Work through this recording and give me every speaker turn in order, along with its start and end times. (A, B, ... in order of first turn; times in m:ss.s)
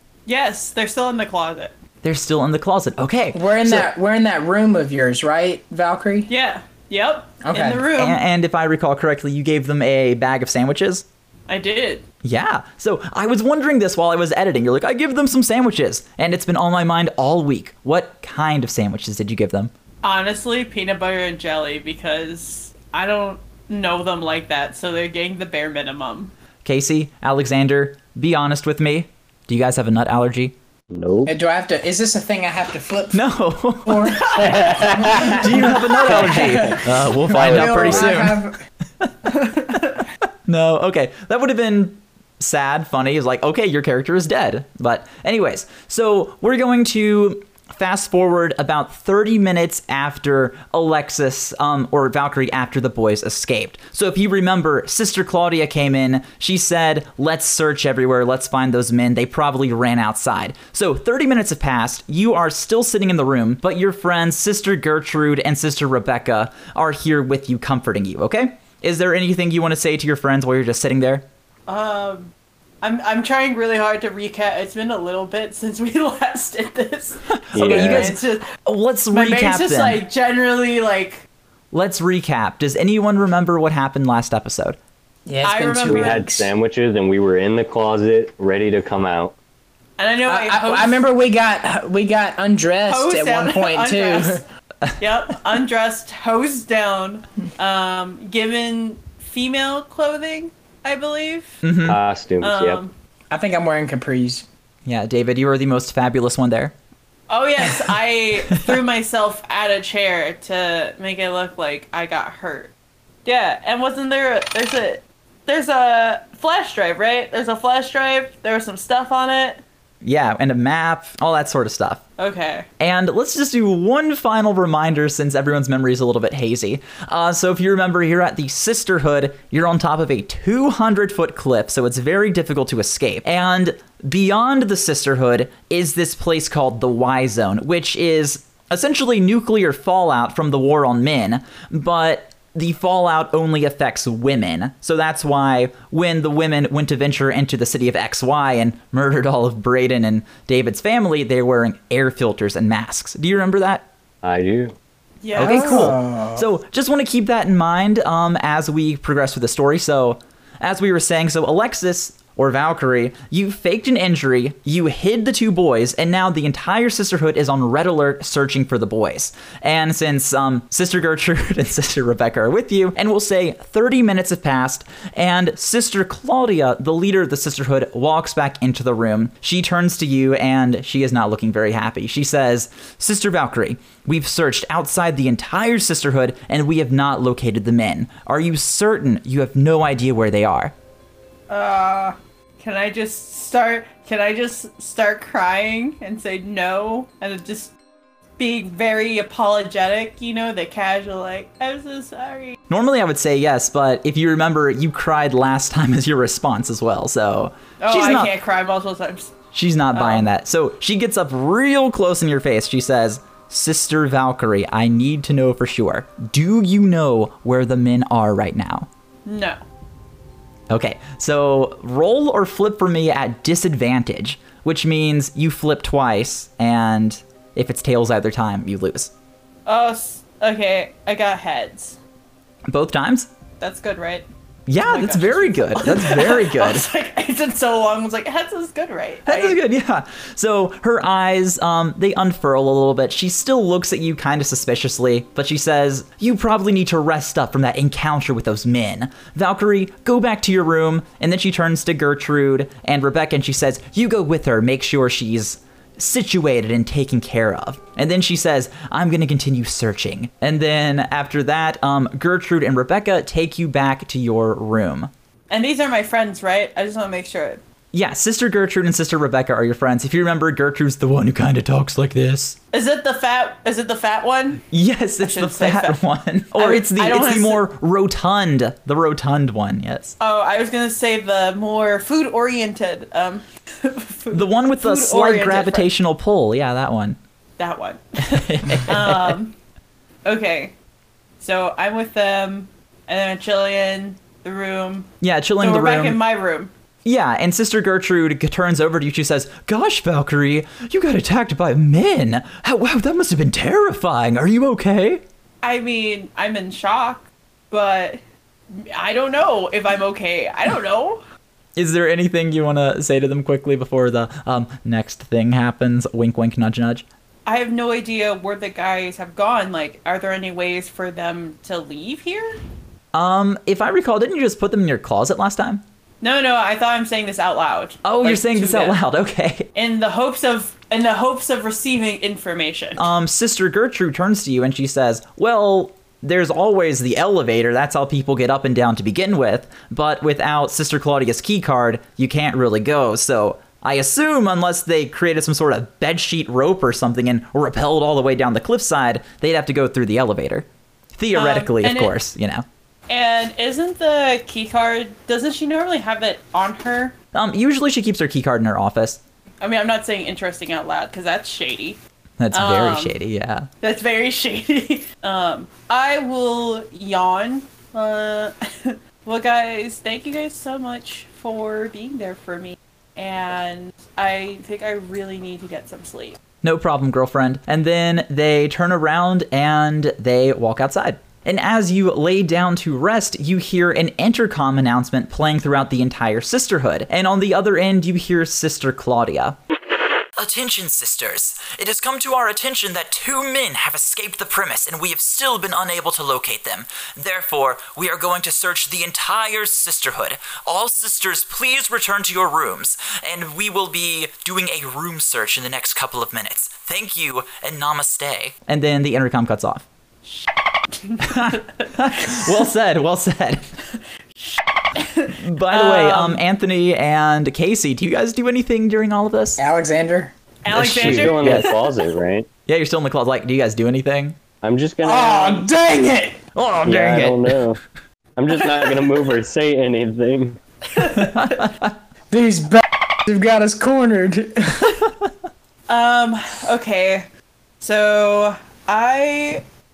0:00.3-0:01.7 A
0:02.0-0:03.9 B
0:03.3-0:06.3 C
0:06.3-0:08.2 A
0:07.4-0:07.9 C
0:08.0-0:11.0 B
0:11.5-0:12.0 A
0:12.2-0:19.7 B
0:20.0-0:26.3 A
0:26.6-0:30.6 B
0:30.9-0:31.3 D
0:31.2-0:38.6 C
0:33.1-0:38.5 B
0:34.4-0:35.5 D
0:36.4-0:38.2 D
0:39.0-0:39.8 B
0:39.5-0:39.9 A
0:40.5-1:11.2 B
1:11.7-1:18.5 A
1:17.5-1:20.0 B
1:17.6-1:18.2 D
1:19.1-1:21.2 A
1:21.7-1:24.8 B
1:25.3-1:26.5 C
1:25.4-1:26.3 A
1:25.8-1:29.3 D
1:30.0-1:31.0 A
1:30.3-1:34.4 C
1:32.9-1:34.4 A
1:35.0-1:41.6 A
1:41.6-1:42.0 B
1:41.8-1:42.8 D
1:42.4-1:42.9 A
1:43.3-1:44.5 C
1:44.8-1:46.7 B
1:47.3-1:52.7 A
1:53.2-1:59.6 A
2:00.0-2:02.0 B
2:02.2-2:02.7 A
2:02.8-2:33.8 B
2:34.2-2:34.8 D
2:35.2-2:35.9 A
2:35.4-2:36.4 C
2:35.4-3:10.7 B
3:11.5-3:17.7 A
3:18.4-3:22.6 A
3:22.7-3:28.3 B
3:27.8-3:29.3 A
3:29.5-3:38.9 B
3:29.9-3:30.3 A
3:39.3-3:39.6 A
3:40.7-3:49.1 B
3:49.7-3:52.0 A
3:52.7-3:53.3 B
3:53.6-3:54.3 A
3:54.7-3:56.8 B
3:54.8-3:59.6 A
3:59.3-4:25.1 B
4:25.5-4:27.6 A
4:27.9-4:32.6 B
4:32.7-4:34.6 A
4:34.7-4:40.0 B
4:35.2-4:36.0 A
4:36.6-4:37.6 A
4:40.1-4:45.9 A
4:44.3-4:47.2 B
4:47.6-4:49.5 A
4:48.2-4:49.4 B
4:50.2-4:50.7 A
4:51.4-4:56.7 A
4:55.2-4:56.2 B
4:57.0-5:05.2 B
5:05.6-5:08.2 A
5:08.7-5:11.2 A
5:11.8-5:17.0 B
5:17.5-5:22.6 A
5:23.1-5:25.8 B
5:26.2-5:29.0 A
5:28.0-5:29.7 B
5:29.8-5:33.1 A
5:33.0-5:50.7 B
5:51.2-5:52.6 B
5:51.3-5:52.1 A
5:53.1-5:57.2 A
5:57.3-5:59.2 B
5:59.6-6:02.0 A
6:02.4-6:03.7 B
6:02.5-6:03.2 A
6:03.8-6:16.4 A
6:16.6-6:29.6 B
6:30.4-6:49.8 B
6:50.3-6:52.6 A
6:51.2-6:53.6 B
6:54.4-6:56.4 A
6:55.4-6:59.6 B
6:59.6-7:00.3 C
7:00.6-7:02.0 A
7:00.7-7:01.7 B
7:00.7-7:02.5 D
7:02.7-7:04.4 B
7:04.6-7:05.6 D
7:05.0-7:06.4 C
7:06.5-7:07.6 B
7:06.8-7:07.8 D
7:08.4-7:10.6 D
7:10.9-7:11.7 A
7:11.1-7:11.9 B
7:12.3-7:15.0 C
7:15.9-7:17.2 A
7:17.8-7:19.6 A